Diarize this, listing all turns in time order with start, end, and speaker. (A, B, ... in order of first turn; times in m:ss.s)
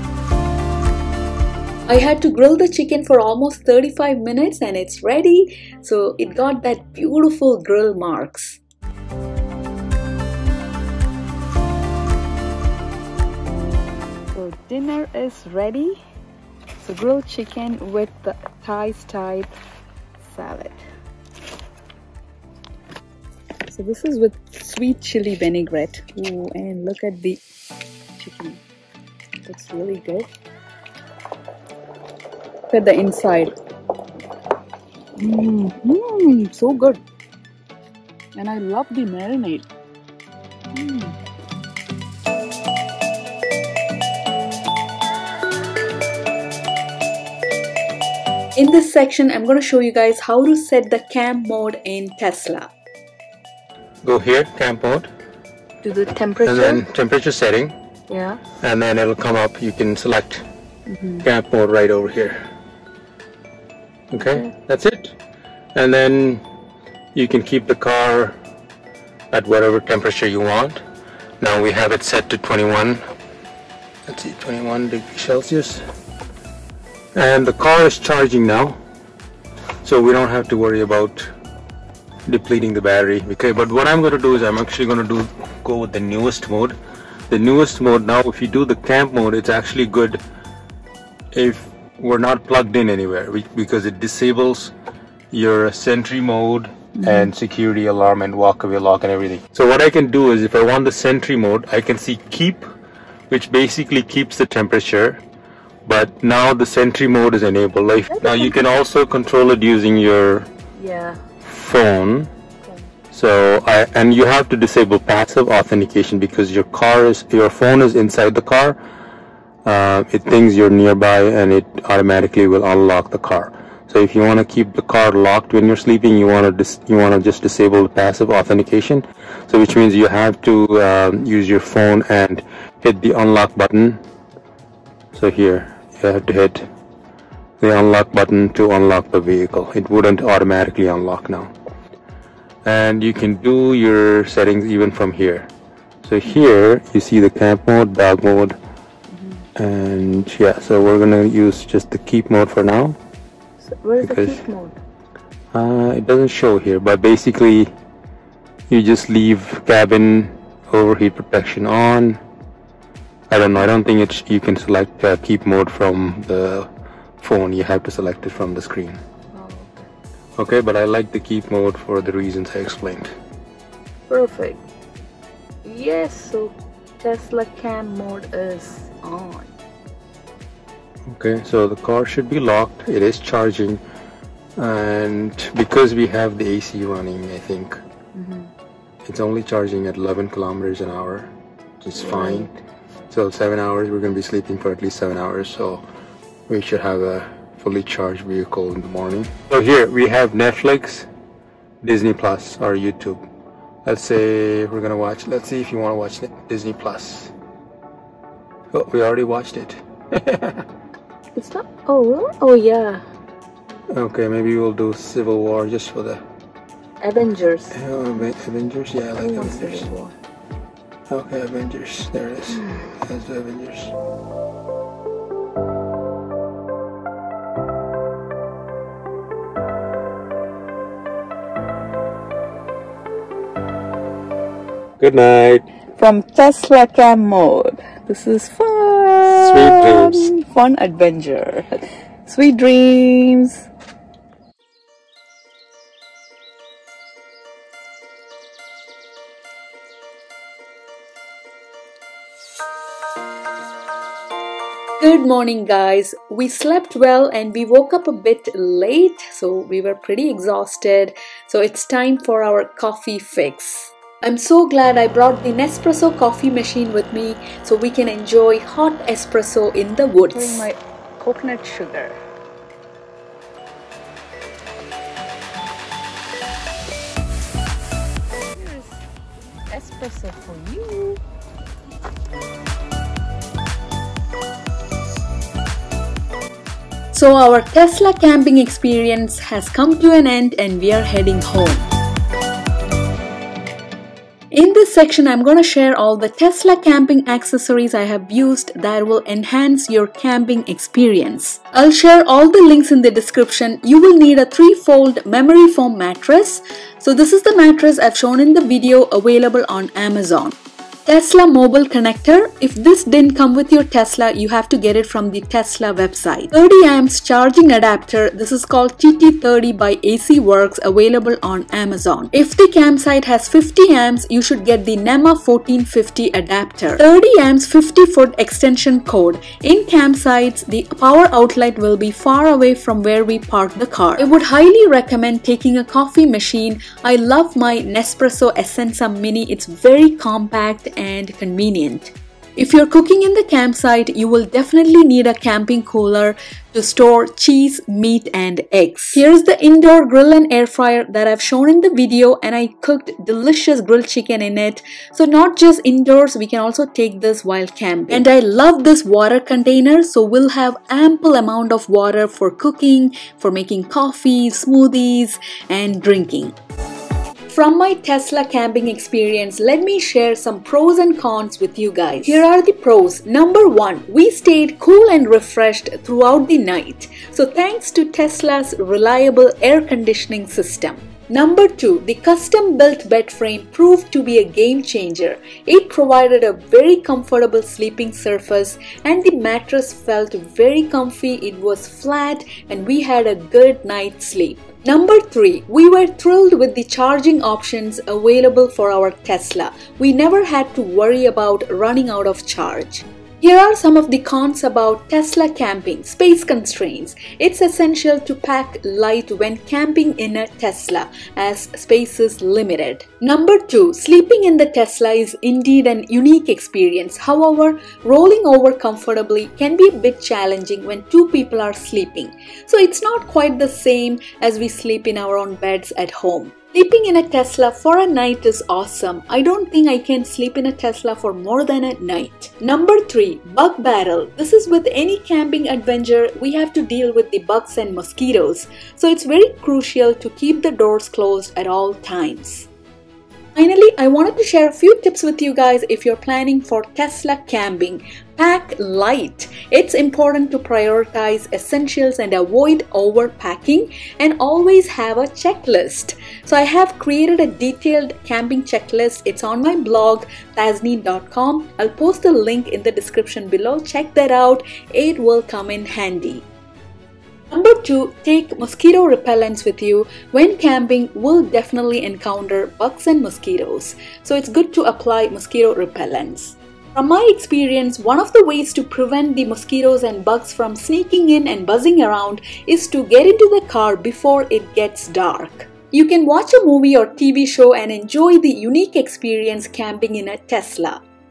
0:01.9-0:08.6 A
0:14.4-0:16.0 B
0:14.5-0:15.7 A
0:16.9-0:19.5 B
0:20.3-0:20.8 B
0:23.7-0:27.4 A
0:25.3-0:26.2 B
0:28.2-0:28.6 A
0:29.5-0:30.3 A
0:32.7-0:33.5 A
0:35.2-0:37.0 A
0:38.4-0:39.6 A
0:40.8-0:41.1 A
0:48.6-0:52.7 A
0:54.0-0:55.1 C
0:55.8-0:56.8 B
0:56.4-0:57.8 C
0:58.1-0:58.4 B
0:58.6-1:00.5 C
1:00.9-1:01.3 B
1:01.2-1:02.4 C
1:04.1-1:05.2 C
1:04.2-1:04.5 B
1:05.8-1:06.4 C
1:07.2-1:08.4 C
1:09.3-1:10.8 C
1:11.4-1:13.0 C
1:14.1-1:15.9 C
1:17.2-1:18.8 C
1:19.8-1:21.3 C
1:22.3-1:26.8 C
1:27.3-1:30.2 C
1:31.3-1:34.7 C
1:35.3-1:42.7 C
1:37.0-1:37.3 B
1:43.3-1:45.2 C
1:45.9-1:50.5 C
1:48.1-1:48.6 B
1:50.8-1:51.2 B
1:51.4-1:52.3 C
1:53.1-1:58.8 C
1:59.6-2:14.0 C
2:15.1-2:16.7 C
2:17.6-2:21.5 C
2:22.6-2:25.5 C
2:26.0-2:28.6 C
2:29.6-2:33.0 C
2:33.7-2:34.8 B
2:34.0-2:34.5 C
2:35.5-2:37.7 C
2:38.7-2:42.2 C
2:43.3-2:46.7 C
2:47.2-2:49.0 C
2:49.3-2:49.9 B
2:50.4-2:53.1 C
2:54.1-2:54.6 B
2:55.6-2:59.5 B
3:01.1-3:03.8 C
3:04.6-3:07.8 C
3:08.2-3:08.5 B
3:09.1-3:12.5 C
3:12.0-3:12.6 B
3:13.1-3:15.8 C
3:16.5-3:21.1 C
3:21.8-3:23.2 C
3:23.8-3:27.3 C
3:28.7-3:30.7 C
3:31.4-3:33.0 B
3:33.9-3:36.2 C
3:37.0-3:37.8 B
3:37.7-3:39.9 C
3:39.2-3:40.1 B
3:41.1-3:43.9 C
3:55.0-3:55.6 C
3:56.0-4:01.7 B
3:59.2-4:00.3 C
4:02.3-4:03.7 B
4:15.0-4:30.7 A
4:30.3-4:32.2 B
4:38.6-4:39.0 B
4:39.7-4:41.2 B
4:47.1-4:51.9 A
4:54.5-6:06.6 A
6:07.5-7:22.7 A
7:23.6-7:46.5 A
7:47.5-8:11.0 A